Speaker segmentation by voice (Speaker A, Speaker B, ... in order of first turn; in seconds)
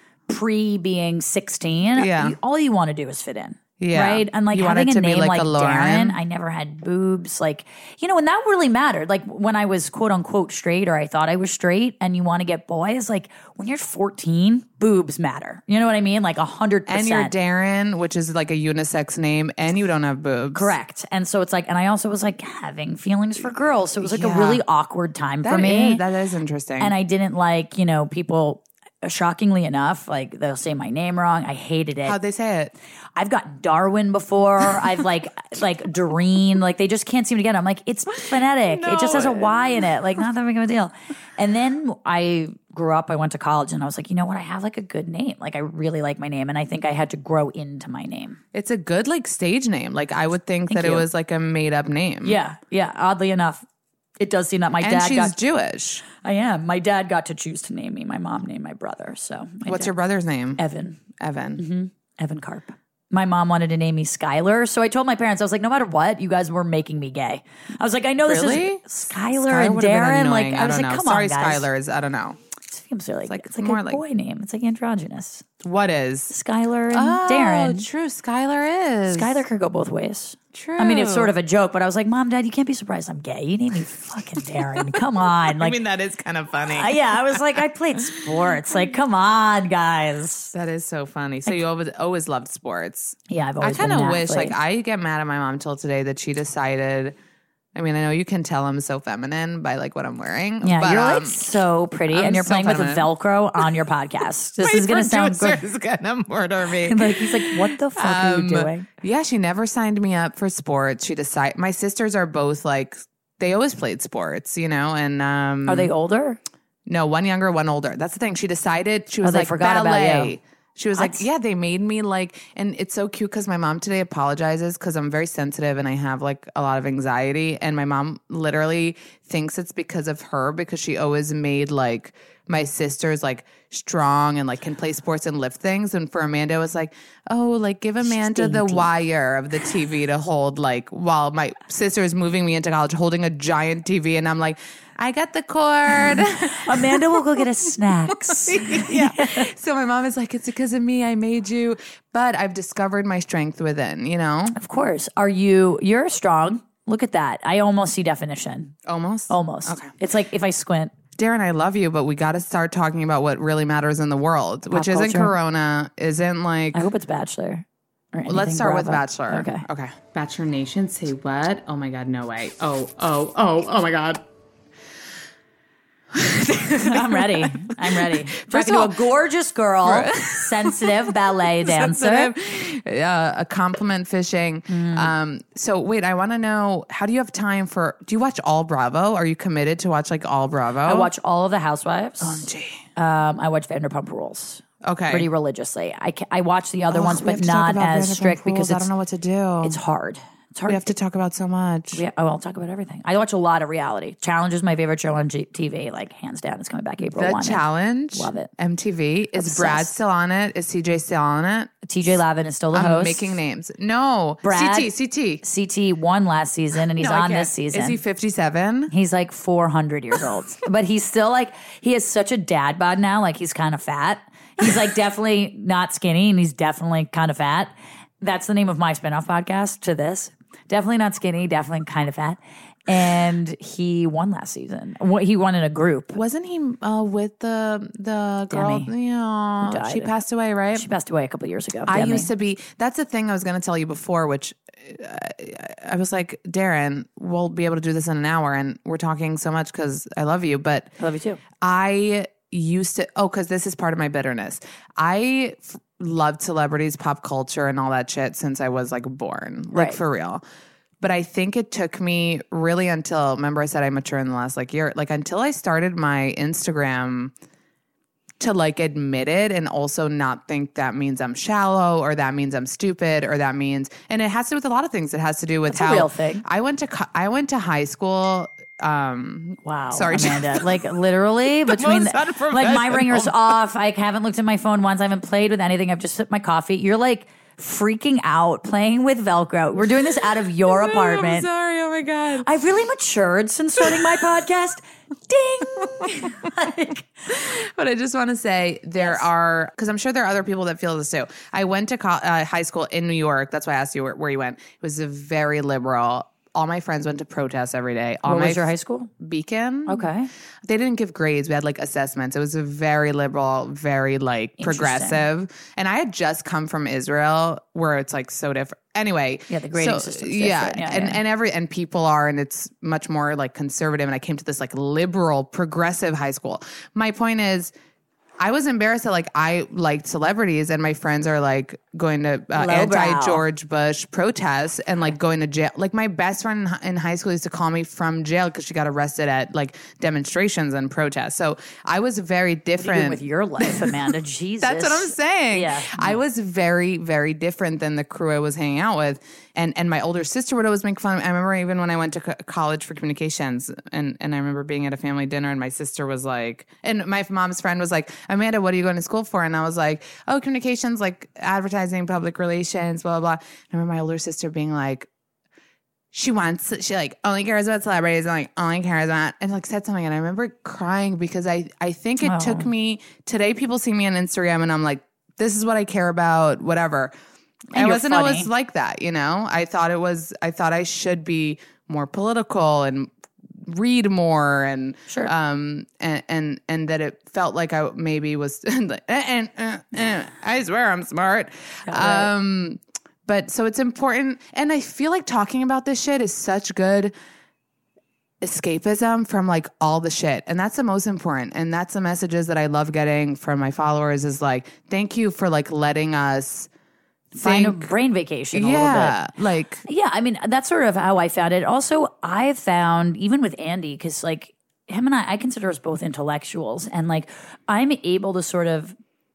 Speaker A: 0.3-17.3, 20.5-26.0, 26.8-32.2, 33.1-48.4, 50.7-51.1, 52.2-53.6, 54.2-55.4, 56.1-59.9, 60.6-61.0, 61.6-71.7, 72.7-75.5, 76.3-77.9, 79.0-85.8, 86.7-90.5, 93.3-94.5, 100.6-105.6, 106.8-108.9, 115.7-116.4, 119.2-120.3, 120.9-121.2, 138.0-138.9, 146.1-149.5, 154.5-158.7, 159.3-160.9, 164.7-165.3, 166.7-169.6, 176.8-182.3, 184.7-185.1, 190.8-198.9, 199.6-200.9, 201.9-208.5, 209.3-209.9, 211.8-213.4, 214.4-214.9, 215.4-218.0, 218.9-236.2, 238.5-238.9, 239.6-240.1, 240.7-242.3, 251.0-251.4, 259.7-260.0, 275.7-276.4, 279.6-291.5, 292.4-297.1, 299.0-299.3, 308.2-309.1, 309.9-310.3, 314.6-315.2, 319.5-321.2, 332.5-333.4, 342.8-346.2, 372.2-372.7, 377.7-378.5, 391.9-392.3, 407.3-409.2, 409.9-418.9
Speaker B: 1.9-2.4, 3.8-6.2, 16.9-20.7, 24.0-24.6, 25.4-26.9, 32.0-32.7, 38.3-40.0, 48.5-52.4, 54.8-56.0, 59.6-60.6, 61.2-61.6, 68.2-72.4, 73.3-74.0, 75.6-76.3, 76.9-79.4, 80.5-81.3, 84.6-88.2, 90.5-97.2, 97.7-101.5, 102.1-103.1, 104.6-115.9, 116.8-147.4, 148.2-154.6, 158.8-159.9, 161.2-166.9, 168.3-174.2, 176.1-179.0, 179.8-191.1, 192.2-192.8, 194.8-195.3, 196.9-199.8, 200.7-202.0, 207.0-211.7, 212.7-215.4, 217.0-218.9, 236.1-240.9, 241.9-250.9, 251.6-260.4, 261.0-267.3, 268.4-280.9, 281.6-283.5, 290.6-292.5, 296.0-296.3, 297.3-310.1, 310.6-327.7, 328.4-344.1, 344.6-365.1, 366.1-377.1, 377.7-383.1, 383.6-397.1, 398.4-406.7, 407.4-407.9, 408.5-409.8